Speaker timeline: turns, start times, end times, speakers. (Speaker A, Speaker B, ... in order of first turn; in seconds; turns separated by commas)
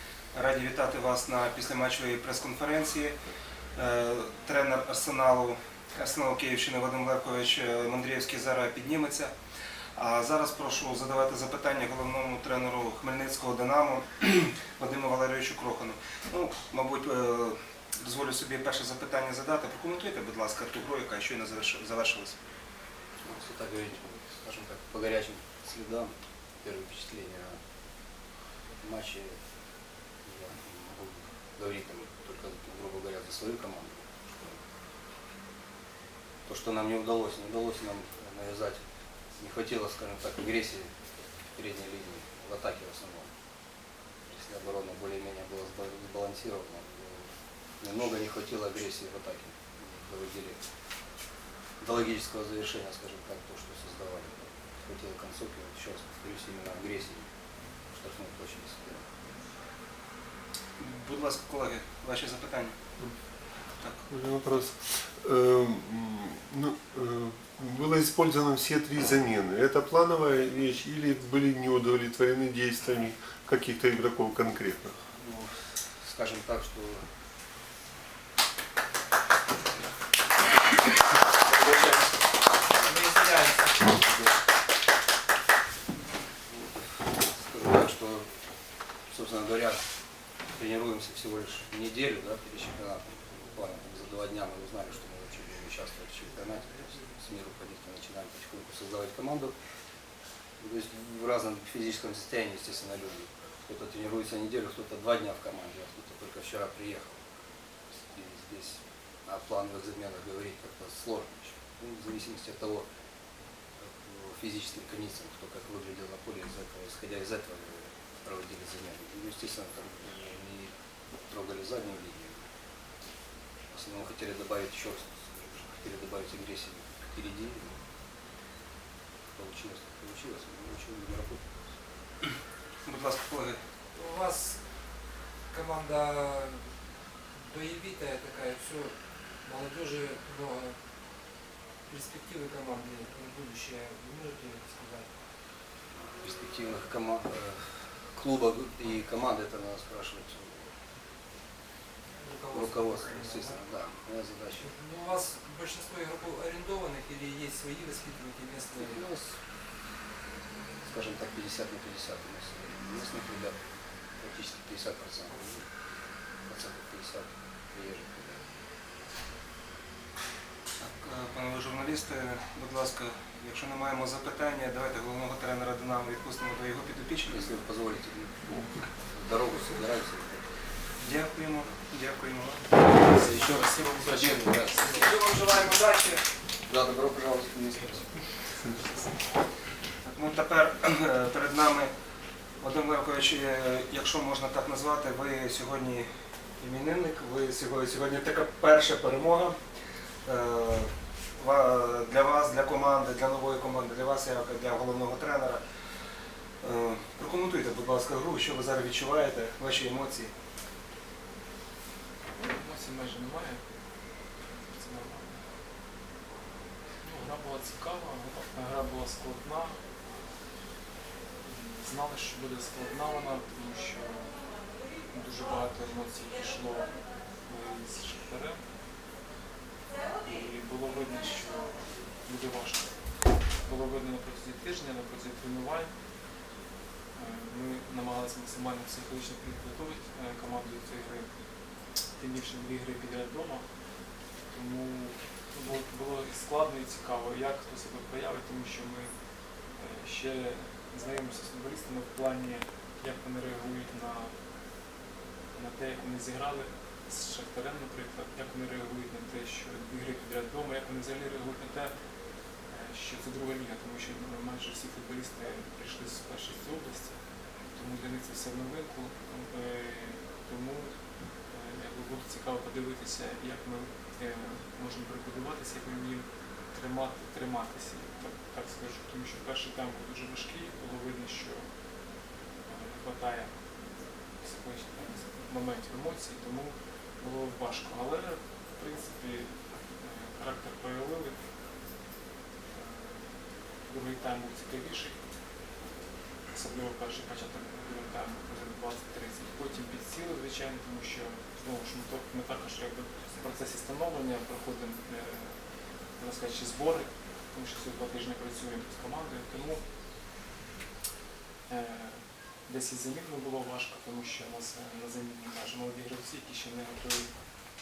Speaker A: 0.3-3.2, Speaker A: 3.8-9.3, Speaker A: 9.9-22.4, Speaker B: 23.2-27.6, Speaker B: 28.8-29.4, Speaker B: 30.2-34.6, Speaker B: 36.5-38.8, Speaker B: 39.4-43.3, Speaker B: 44.3-50.6, Speaker B: 51.8-57.3, Speaker B: 57.9-59.1, Speaker A: 60.8-62.8, Speaker A: 63.8-64.0, Speaker C: 64.1-75.0, Speaker B: 75.1-77.0, Speaker B: 81.5-82.0, Speaker D: 82.7-84.0, Speaker B: 86.5-88.3, Speaker B: 89.1-89.8, Speaker B: 90.5-99.5, Speaker B: 100.6-107.2, Speaker B: 107.9-112.9, Speaker B: 113.8-120.7, Speaker B: 121.3-122.4, Speaker B: 123.7-127.8, Speaker B: 129.3-131.4, Speaker A: 132.8-133.6, Speaker D: 133.9-134.8, Speaker D: 135.5-136.7, Speaker D: 137.3-140.8, Speaker D: 141.9-145.1, Speaker B: 146.0-150.7, Speaker D: 152.2-153.6, Speaker B: 152.5-154.7, Speaker D: 154.6-159.1, Speaker B: 158.8-159.4, Speaker B: 160.8-165.8, Speaker B: 166.3-168.4, Speaker A: 170.8-177.5, Speaker B: 177.3-178.4, Speaker C: 178.4-178.9, Speaker B: 179.0-180.4, Speaker A: 181.0-182.8, Speaker B: 183.0-185.1, Speaker E: 183.6-184.1, Speaker D: 184.8-186.2, Speaker B: 186.7-188.3, Speaker C: 188.4-188.9, Speaker A: 190.0-191.9, Speaker A: 192.6-199.6, Speaker A: 200.2-205.6, Speaker A: 206.6-210.3, Speaker E: 212.3-213.6, Speaker E: 214.6-215.4, Speaker E: 217.0-219.8, Speaker E: 221.4-228.6, Speaker E: 230.2-233.0, Speaker E: 233.6-235.9, Speaker E: 237.2-241.3, Speaker E: 242.2-243.7, Speaker E: 244.5-249.1, Speaker E: 249.8-254.3, Speaker E: 255.5-261.9, Speaker E: 262.7-267.2, Speaker E: 267.7-270.9, Speaker E: 271.5-281.7, Speaker E: 282.7-283.6, Speaker E: 284.4-291.4, Speaker E: 292.7-295.2, Speaker E: 296.5-305.6, Speaker E: 306.2-309.8, Speaker E: 311.7-317.3